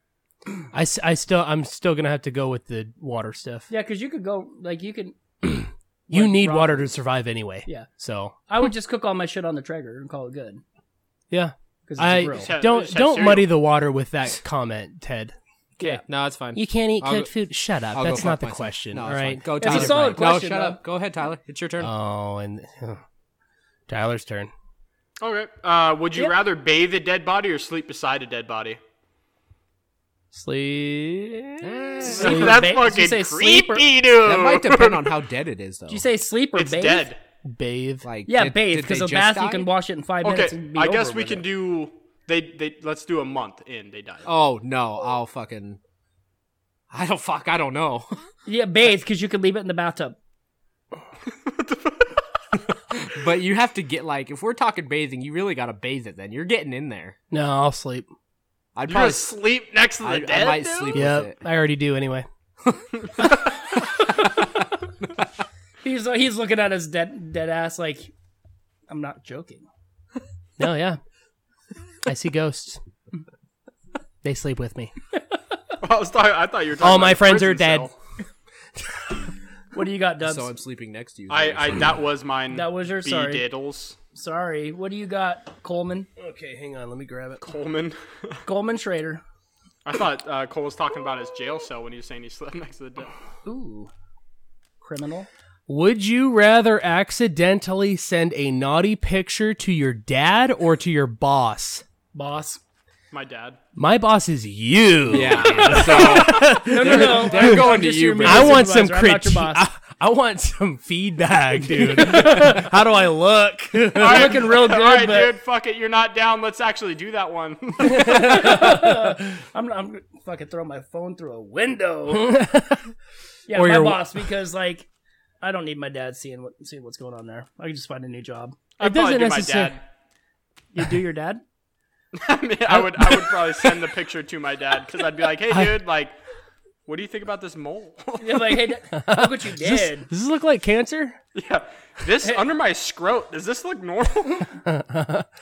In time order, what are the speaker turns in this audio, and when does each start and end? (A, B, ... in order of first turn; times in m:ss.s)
0:00.7-0:03.7 A
0:03.7-0:05.2 B
0:05.4-0:08.4 A
0:06.1-0:06.9 B
0:08.5-0:10.6 B
0:11.3-0:16.0 A
0:11.9-0:12.5 B
0:12.3-0:13.5 C
0:16.0-0:17.3 D
0:16.5-0:20.2 A
0:17.9-0:21.9 D
0:19.6-0:20.8 B
0:21.8-0:23.0 A
0:23.9-0:24.5 A
0:25.2-0:28.8 C
0:30.3-0:32.3 A
0:31.6-0:32.6 D
0:32.0-0:33.8 B
0:32.0-0:35.1 C
0:34.2-0:36.0 D
0:35.9-0:37.1 B
0:36.5-0:37.2 C
0:37.4-0:38.0 A
0:38.0-0:39.7 D
0:38.2-0:41.4 B
0:40.2-0:44.3 C
0:44.2-0:45.8 D
0:46.9-0:48.3 D
0:48.4-0:50.2 B
0:51.2-0:52.2 C
0:52.9-0:57.1 D
0:57.3-0:58.1 A
0:58.7-0:59.4 D
0:58.9-1:01.1 C
1:00.0-1:01.4 D
1:00.9-1:02.3 A
1:05.8-1:08.1 B
1:08.9-1:09.6 B
1:10.6-1:11.0 A
1:12.0-1:12.8 A
1:14.2-1:14.9 A
1:15.8-1:17.9 C
1:16.8-1:17.9 A
1:19.7-1:20.5 B
1:20.2-1:22.0 D
1:21.3-1:24.0 C
1:22.5-1:23.4 B
1:24.1-1:26.1 B
1:26.2-1:27.4 A
1:27.4-1:28.4 C
1:28.4-1:29.2 B
1:29.8-1:33.1 C
1:33.4-1:33.9 B
1:34.8-1:35.3 B
1:35.7-1:41.8 A
1:42.1-1:42.6 B
1:43.1-1:43.6 C
1:43.7-1:54.4 A
1:45.1-1:48.7 D
1:45.4-1:49.6 B
1:51.6-1:52.7 B
1:54.0-1:55.3 B
1:54.0-1:58.6 C
1:57.8-1:59.2 A
1:57.9-2:02.4 B
2:02.1-2:02.9 A
2:03.5-2:04.9 B
2:03.5-2:04.2 A
2:05.4-2:08.6 B
2:08.8-2:09.8 C
2:08.8-2:09.8 A
2:10.7-2:11.4 B
2:12.1-2:16.2 C
2:12.7-2:13.6 A
2:15.5-2:15.7 A
2:16.8-2:18.7 C
2:18.2-2:20.1 B
2:18.9-2:21.2 A
2:21.3-2:24.5 C
2:24.6-2:25.2 A